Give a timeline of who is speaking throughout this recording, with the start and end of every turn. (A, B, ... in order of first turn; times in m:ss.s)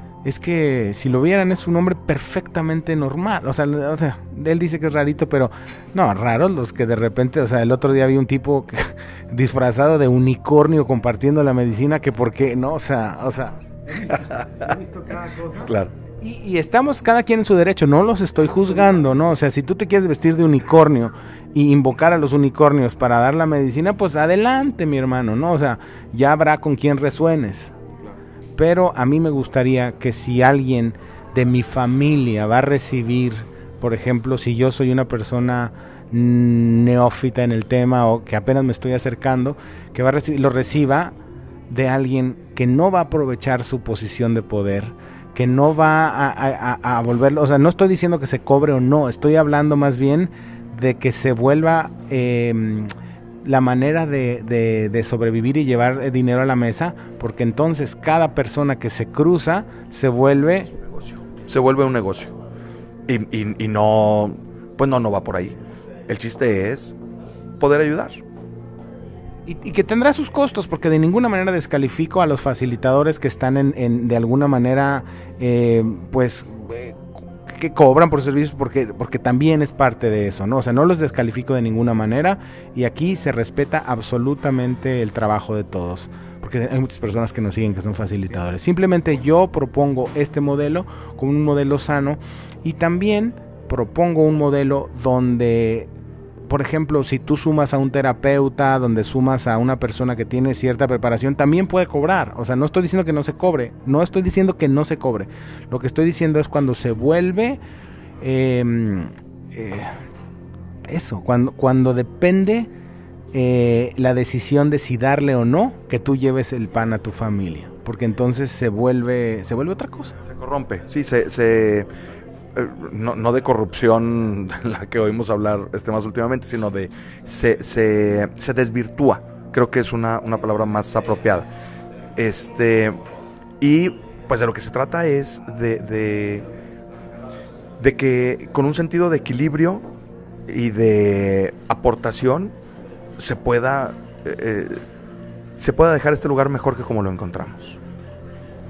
0:00.2-0:27.7 A
0:15.6-0:15.9 B
0:28.6-0:41.1 A
0:41.7-0:52.9 A
0:53.4-1:00.7 A
1:00.7-1:02.4 B
1:03.1-1:07.0 B
1:07.6-1:08.2 B
1:09.5-1:35.9 A
1:36.5-1:47.6 A
1:48.2-1:50.0 A
1:50.9-1:52.7 A
1:53.3-2:00.2 A
2:00.2-2:01.9 B
2:02.6-2:11.5 B
2:12.2-2:13.0 B
2:13.6-2:16.5 B
2:17.8-2:19.8 B
2:20.5-2:22.6 B
2:23.2-2:24.8 B
2:25.6-2:27.8 B